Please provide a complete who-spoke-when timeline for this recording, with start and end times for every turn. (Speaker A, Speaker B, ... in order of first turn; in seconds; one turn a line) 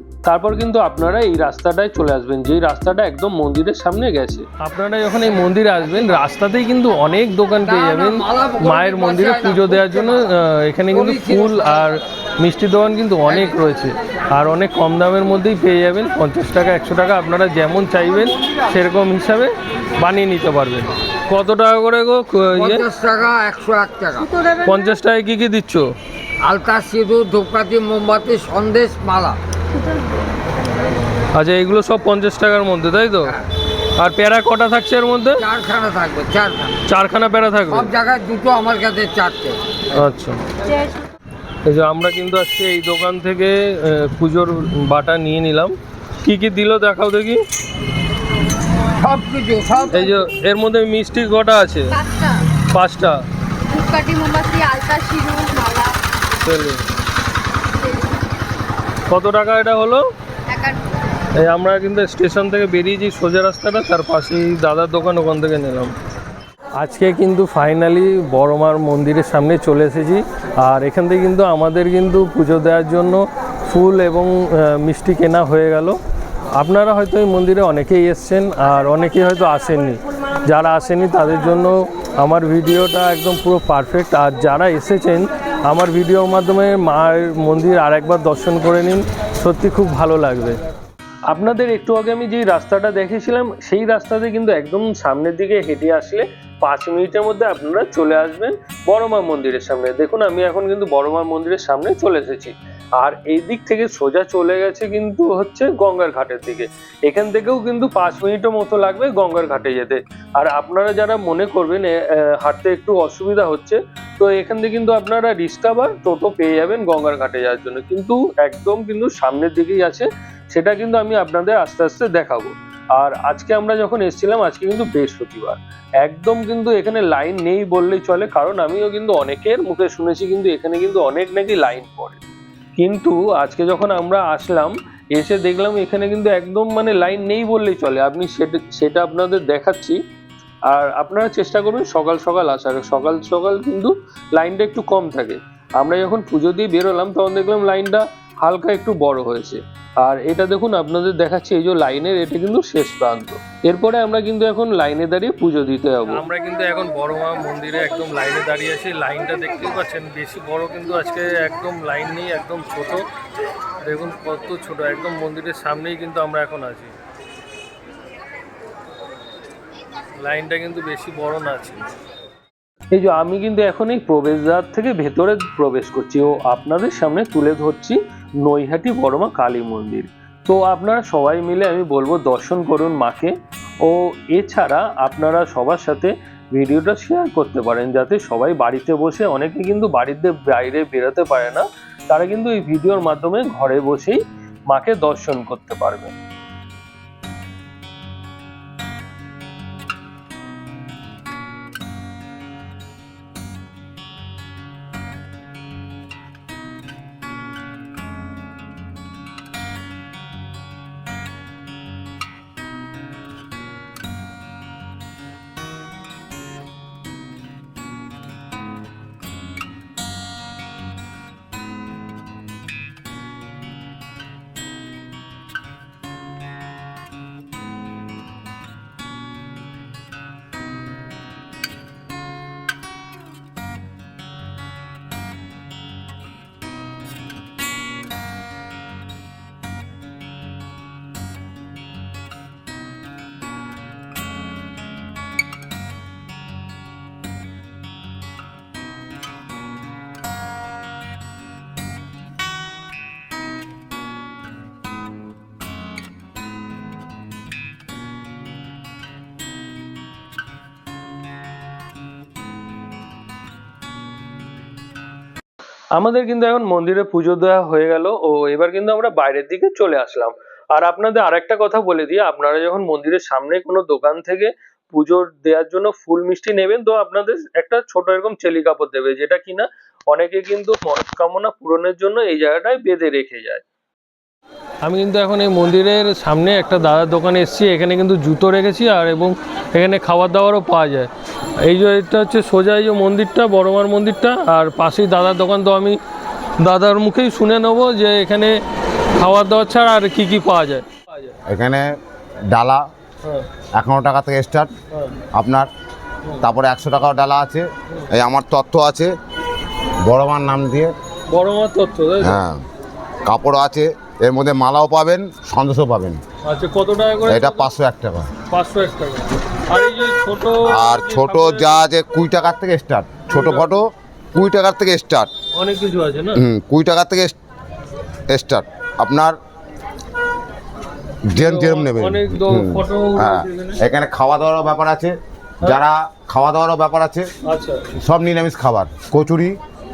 Speaker A: 0.3-4.5
Speaker B: 4.6-22.9
Speaker C: 7.7-10.2
Speaker C: 10.9-11.8
Speaker C: 22.5-24.4
Speaker B: 24.6-25.9
Speaker C: 26.4-29.4
Speaker B: 31.3-33.4
Speaker B: 34.0-35.4
Speaker C: 35.4-36.7
Speaker B: 36.9-37.9
Speaker C: 37.7-40.0
Speaker B: 39.9-40.4
Speaker B: 41.7-47.4
Speaker C: 49.0-50.1
Speaker B: 49.9-52.0
Speaker D: 51.9-52.4
Speaker B: 52.6-53.2
Speaker D: 53.7-56.0
Speaker B: 56.4-56.9
Speaker D: 57.8-58.3
Speaker B: 59.1-60.1
Speaker D: 60.5-61.0
Speaker B: 61.4-65.9
Speaker B: 66.8-76.0
Speaker B: 76.5-90.6
Speaker A: 91.3-132.2
Speaker A: 132.8-140.0
Speaker A: 140.7-156.2
Speaker B: 156.1-163.1
Speaker B: 163.8-166.9
Speaker B: 170.2-171.9
Speaker A: 172.9-194.2
Speaker A: 194.7-196.1
Speaker A: 266.0-283.6
Speaker B: 284.8-291.1
Speaker B: 291.6-296.0
Speaker B: 296.6-298.6
Speaker B: 299.2-301.3
Speaker E: 301.5-301.9
Speaker E: 302.5-302.8
Speaker E: 303.8-304.7
Speaker E: 305.4-305.7
Speaker E: 306.4-309.1
Speaker E: 310.1-310.9
Speaker B: 311.3-312.4
Speaker E: 312.2-312.6
Speaker E: 313.2-316.2
Speaker B: 316.5-317.7
Speaker E: 317.3-318.3
Speaker B: 318.5-321.9
Speaker E: 320.6-325.3
Speaker B: 323.3-323.8
Speaker B: 325.6-326.4
Speaker E: 326.4-327.4
Speaker E: 328.3-329.4
Speaker E: 331.3-337.3
Speaker B: 331.3-333.8
Speaker B: 337.5-337.9
Speaker E: 337.9-339.6